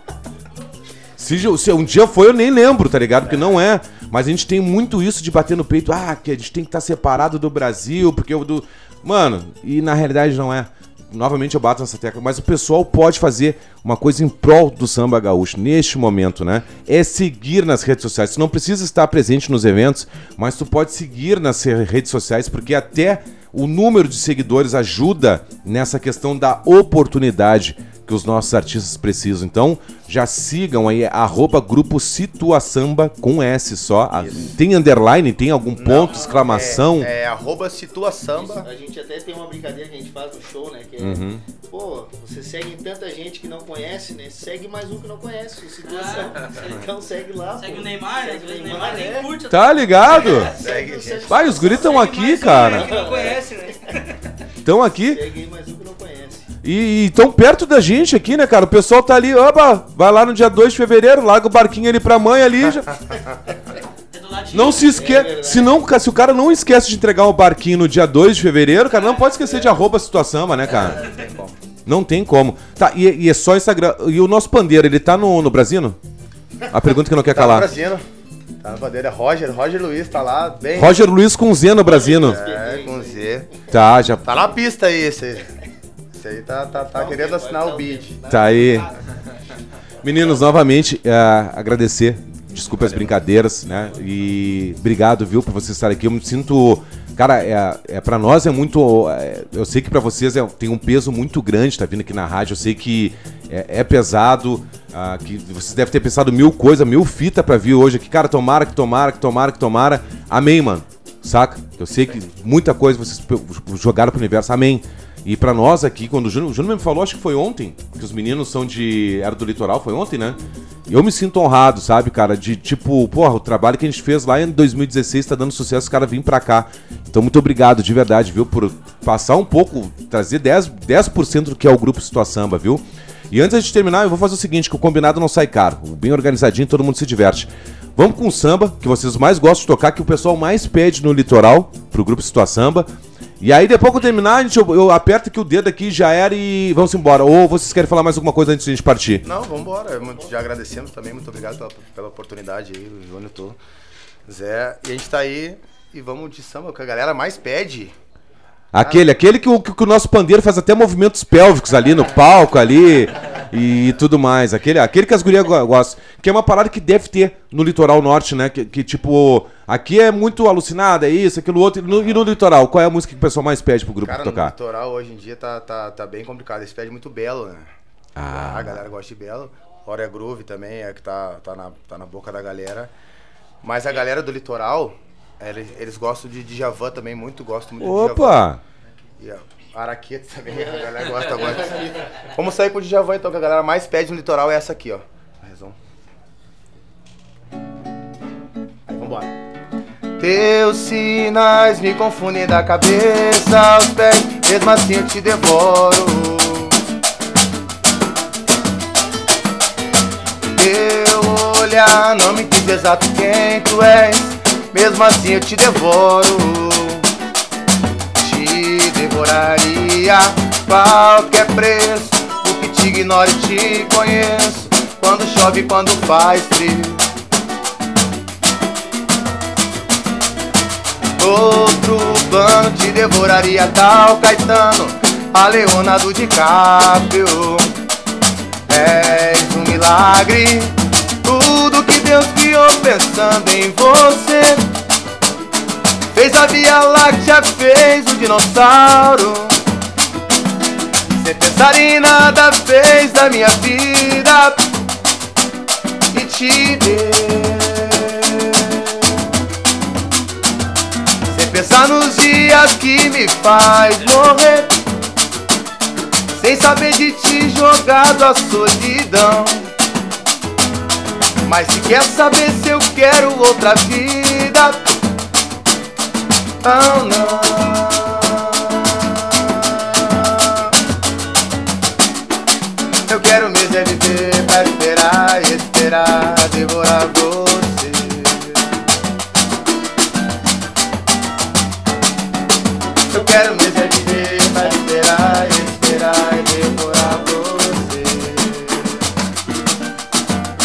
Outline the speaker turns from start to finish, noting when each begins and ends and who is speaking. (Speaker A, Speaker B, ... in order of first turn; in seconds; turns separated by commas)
Speaker A: 1.2-37.1, Speaker B: 34.2-34.5, Speaker B: 35.8-38.7, Speaker C: 36.1-36.5, Speaker D: 38.4-49.4, Speaker A: 41.0-41.4, Speaker C: 45.9-46.9, Speaker C: 47.6-50.6, Speaker A: 49.5-50.6, Speaker D: 50.1-53.5, Speaker B: 50.6-51.6, Speaker A: 51.3-53.0, Speaker C: 51.6-54.2, Speaker A: 54.6-55.2, Speaker D: 55.0-56.5, Speaker A: 56.6-62.9, Speaker C: 64.1-65.0, Speaker A: 64.5-71.0, Speaker D: 64.9-65.9, Speaker D: 69.4-69.8, Speaker B: 71.0-71.5, Speaker A: 71.9-76.0, Speaker A: 76.7-77.7, Speaker B: 77.3-78.0, Speaker B: 78.6-81.0, Speaker A: 80.8-82.4, Speaker D: 81.8-83.3, Speaker B: 82.2-83.5, Speaker A: 83.7-84.3, Speaker B: 84.2-85.5, Speaker B: 86.2-88.2, Speaker D: 86.9-89.0, Speaker A: 88.3-88.9, Speaker A: 90.0-149.2, Speaker B: 92.8-93.1, Speaker B: 149.2-153.6, Speaker B: 154.3-157.9, Speaker A: 158.7-174.5, Speaker B: 158.8-159.1, Speaker B: 174.0-177.7, Speaker A: 178.2-178.8, Speaker B: 178.3-182.9, Speaker B: 183.6-188.4, Speaker A: 187.8-188.6, Speaker B: 189.2-195.8, Speaker B: 198.9-199.3, Speaker B: 200.2-206.8, Speaker B: 210.6-217.1, Speaker B: 218.2-227.1, Speaker B: 231.2-237.7, Speaker B: 238.7-244.7, Speaker B: 246.1-249.6, Speaker B: 251.1-254.6, Speaker B: 256.1-259.1, Speaker B: 261.3-264.7, Speaker B: 266.3-269.7, Speaker B: 271.5-274.9, Speaker B: 276.6-280.8, Speaker B: 283.1-288.6, Speaker B: 293.1-298.9